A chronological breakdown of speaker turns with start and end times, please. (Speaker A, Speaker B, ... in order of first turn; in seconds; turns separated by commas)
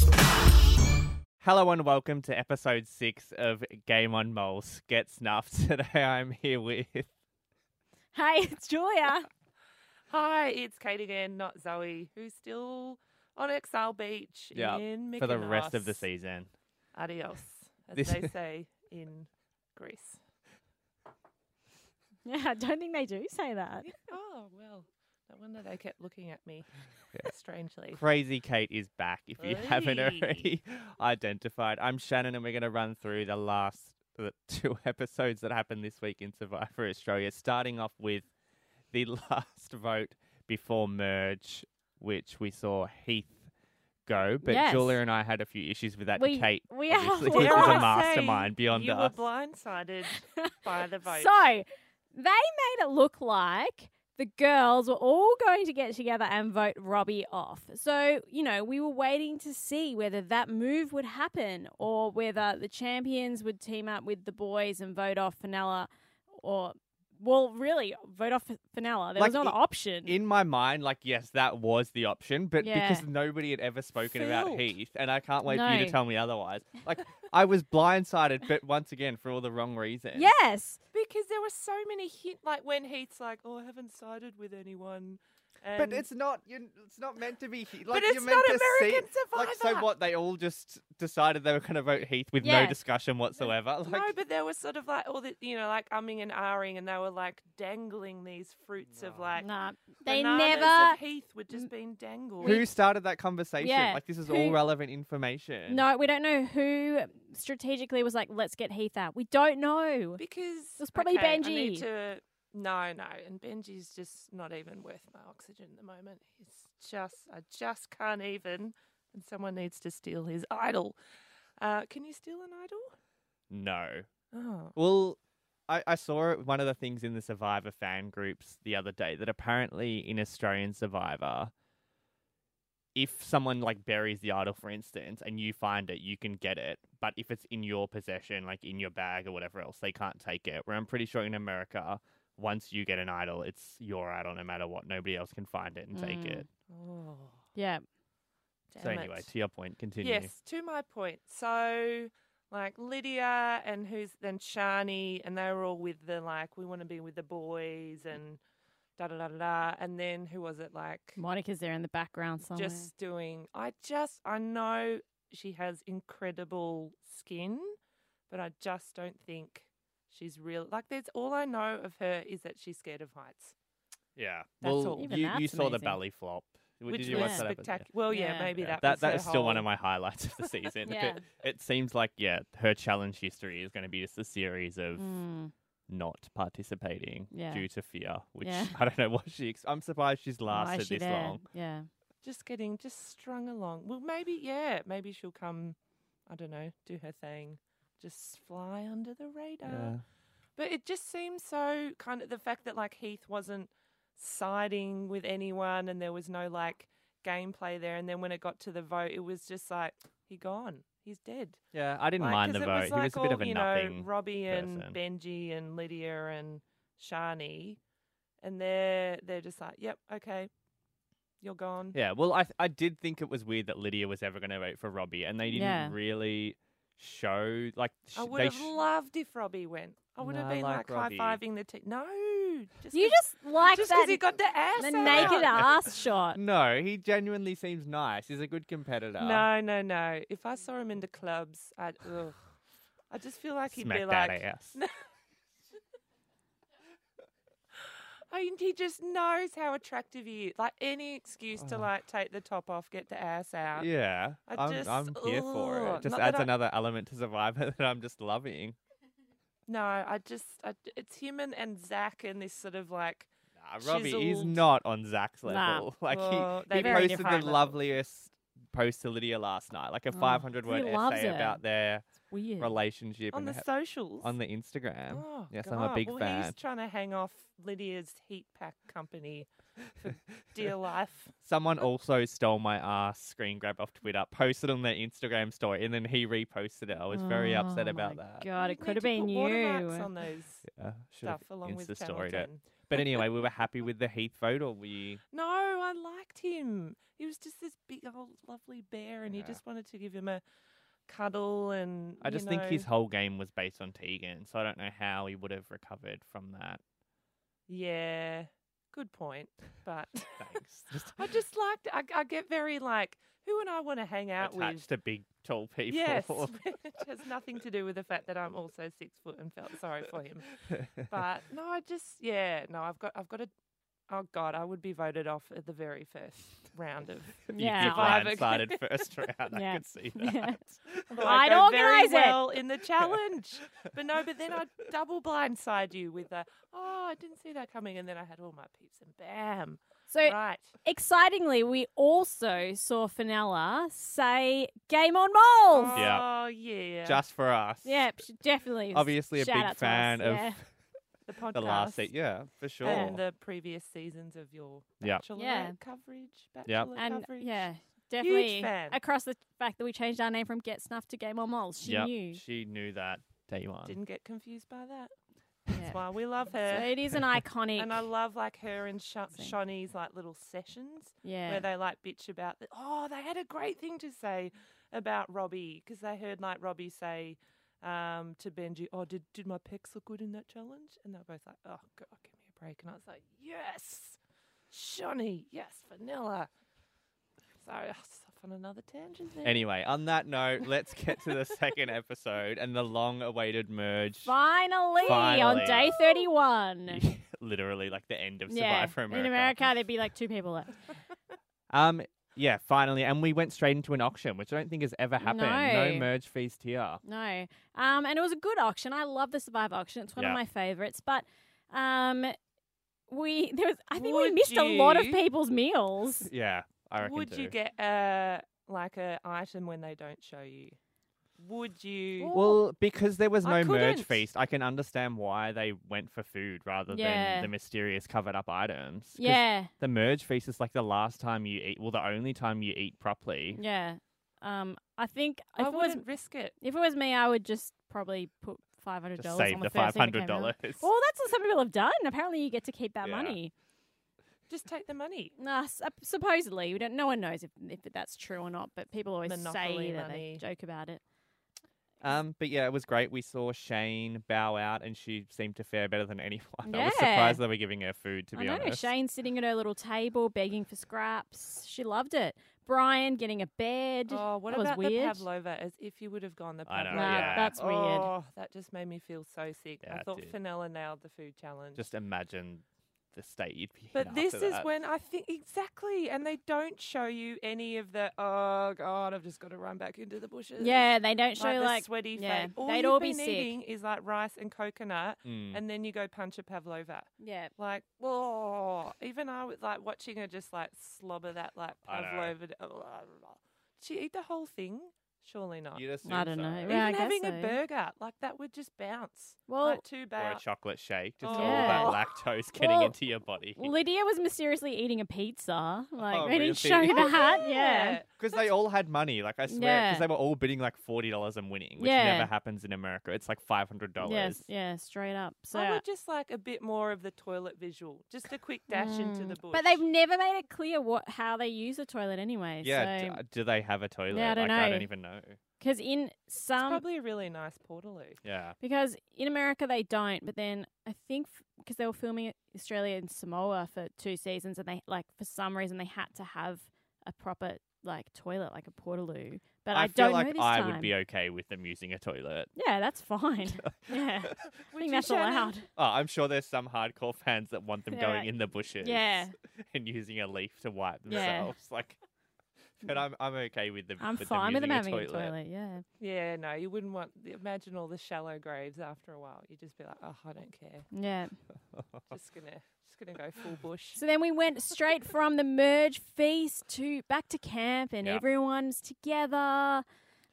Speaker A: 1.4-7.1, Speaker B: 8.1-9.3, Speaker C: 10.1-16.0, Speaker A: 14.5-16.5, Speaker C: 16.9-20.2, Speaker A: 18.0-18.2, Speaker B: 22.2-23.9, Speaker C: 23.8-28.0, Speaker A: 27.9-38.3, Speaker C: 29.4-30.5, Speaker A: 38.9-43.5, Speaker A: 44.0-49.2, Speaker B: 44.4-45.0, Speaker B: 46.1-47.9, Speaker C: 47.3-51.5, Speaker B: 50.3-70.2, Speaker A: 69.2-80.3, Speaker B: 72.6-73.1, Speaker C: 74.1-74.7, Speaker B: 75.5-76.0, Speaker B: 80.1-80.8, Speaker C: 80.9-86.1, Speaker A: 85.8-94.1, Speaker C: 87.9-89.9, Speaker B: 92.4-92.8, Speaker C: 93.4-99.5, Speaker A: 98.9-99.3, Speaker B: 99.4-101.0, Speaker C: 100.0-102.6, Speaker B: 102.4-102.7, Speaker A: 102.4-105.8, Speaker B: 103.6-104.6, Speaker B: 105.7-110.2, Speaker C: 110.2-121.0, Speaker B: 110.8-111.9, Speaker C: 121.6-122.9, Speaker A: 123.5-124.1, Speaker C: 124.3-124.8, Speaker A: 124.8-131.5, Speaker A: 132.9-146.4, Speaker B: 145.9-146.5, Speaker C: 146.7-147.4, Speaker B: 147.6-147.8, Speaker C: 148.7-149.3, Speaker A: 148.8-150.3, Speaker C: 150.0-158.4, Speaker C: 159.0-161.2, Speaker B: 161.2-162.9, Speaker C: 162.5-167.8, Speaker C: 168.3-173.6, Speaker A: 174.2-177.9, Speaker C: 174.6-175.2, Speaker B: 175.0-176.0, Speaker C: 176.9-179.7, Speaker B: 177.1-177.5, Speaker B: 178.1-178.5, Speaker A: 178.6-185.2, Speaker B: 180.8-181.2, Speaker B: 185.0-185.5, Speaker A: 185.9-191.4, Speaker B: 187.3-187.7, Speaker B: 188.4-188.8, Speaker B: 190.5-191.9, Speaker C: 192.2-200.0, Speaker A: 199.7-200.0, Speaker C: 200.6-211.6, Speaker A: 211.7-215.0, Speaker C: 212.2-217.8, Speaker C: 218.4-220.5, Speaker C: 221.4-222.0, Speaker A: 221.9-228.7, Speaker B: 225.5-226.0, Speaker C: 228.2-235.7, Speaker A: 230.2-231.4, Speaker B: 232.9-234.2, Speaker B: 234.8-236.4, Speaker A: 235.0-239.5, Speaker C: 239.2-242.4, Speaker C: 243.1-244.9, Speaker A: 243.7-244.8, Speaker C: 247.8-253.9, Speaker A: 251.6-251.9, Speaker A: 253.8-258.8, Speaker C: 254.5-256.5, Speaker C: 259.7-264.6, Speaker A: 263.6-272.1, Speaker B: 265.4-265.9, Speaker C: 266.1-267.9, Speaker B: 266.7-267.5, Speaker B: 270.1-271.6, Speaker B: 272.3-272.8, Speaker A: 272.6-273.7, Speaker C: 273.3-274.4, Speaker A: 274.2-276.6, Speaker C: 275.1-281.3, Speaker A: 281.4-288.4, Speaker B: 287.1-290.1, Speaker C: 288.6-290.7, Speaker A: 290.7-295.2, Speaker C: 291.2-292.6, Speaker C: 295.3-300.4, Speaker A: 299.3-299.6, Speaker C: 301.1-302.9, Speaker A: 302.2-306.8, Speaker C: 307.7-310.6, Speaker A: 310.4-311.3, Speaker C: 311.1-314.9, Speaker A: 314.4-316.6, Speaker C: 315.9-323.5, Speaker C: 324.1-328.8, Speaker A: 327.5-331.2, Speaker B: 327.5-328.4, Speaker B: 329.5-332.5, Speaker C: 331.1-340.8, Speaker B: 340.1-346.1, Speaker C: 345.7-347.2, Speaker A: 345.9-346.2, Speaker A: 347.1-348.2, Speaker B: 347.9-350.6, Speaker A: 348.9-350.6, Speaker C: 351.3-352.1, Speaker A: 351.5-353.2, Speaker C: 352.8-357.7, Speaker B: 352.8-353.2, Speaker B: 355.4-355.8, Speaker A: 356.7-356.9, Speaker B: 356.9-362.4, Speaker C: 358.2-359.0, Speaker A: 361.8-363.9, Speaker C: 363.9-365.1, Speaker C: 365.7-367.1, Speaker B: 365.7-366.0, Speaker B: 366.5-368.0, Speaker C: 367.8-384.2, Speaker B: 371.2-371.7, Speaker C: 384.7-386.5, Speaker C: 387.6-389.6, Speaker A: 389.4-394.3, Speaker B: 394.2-397.0, Speaker A: 395.0-395.9, Speaker C: 395.0-396.2, Speaker A: 396.9-399.6, Speaker B: 398.5-400.9, Speaker A: 401.7-407.0, Speaker B: 405.2-406.1, Speaker B: 407.0-412.4, Speaker B: 413.1-416.3, Speaker C: 413.9-415.2, Speaker A: 416.2-417.6, Speaker C: 417.0-420.8, Speaker C: 421.4-422.4, Speaker B: 422.2-422.7, Speaker A: 422.3-433.6, Speaker C: 423.4-424.2, Speaker B: 426.9-427.5, Speaker B: 429.2-429.7, Speaker B: 433.5-436.0, Speaker C: 435.6-436.6, Speaker B: 436.6-443.5, Speaker A: 439.2-440.9, Speaker A: 443.0-443.4, Speaker C: 444.5-445.4, Speaker B: 445.4-451.0, Speaker C: 449.2-450.4, Speaker A: 452.0-458.9, Speaker B: 456.6-457.4, Speaker B: 458.4-465.2, Speaker C: 464.1-471.9, Speaker A: 466.7-467.6, Speaker B: 466.9-468.1, Speaker A: 469.8-470.3, Speaker A: 471.8-474.7, Speaker C: 473.9-495.9, Speaker B: 480.6-483.5, Speaker A: 485.2-485.6, Speaker B: 487.2-487.5, Speaker A: 491.9-492.4, Speaker A: 495.7-496.9, Speaker B: 496.1-497.6, Speaker C: 496.7-500.4, Speaker B: 499.5-499.8, Speaker A: 500.2-503.8, Speaker C: 501.2-502.1, Speaker B: 501.3-502.0, Speaker B: 502.5-502.9, Speaker B: 503.6-508.0, Speaker A: 506.0-507.2, Speaker C: 506.8-508.3, Speaker A: 508.2-514.4, Speaker B: 509.5-510.1, Speaker B: 511.8-512.3, Speaker B: 514.0-515.8, Speaker C: 515.5-519.8, Speaker B: 518.7-523.2, Speaker A: 522.6-525.4, Speaker B: 524.1-524.9, Speaker B: 525.6-526.8, Speaker C: 526.5-528.2, Speaker A: 528.2-528.5, Speaker B: 528.6-540.9, Speaker A: 539.7-542.5, Speaker B: 542.5-545.6, Speaker A: 543.5-544.4, Speaker C: 544.7-545.5, Speaker A: 545.8-552.0, Speaker B: 547.9-549.3, Speaker B: 551.1-551.5, Speaker A: 552.8-555.3, Speaker B: 554.0-555.8, Speaker C: 556.0-560.9, Speaker B: 560.9-561.3, Speaker A: 561.7-562.0, Speaker C: 562.1-564.0, Speaker B: 564.0-569.8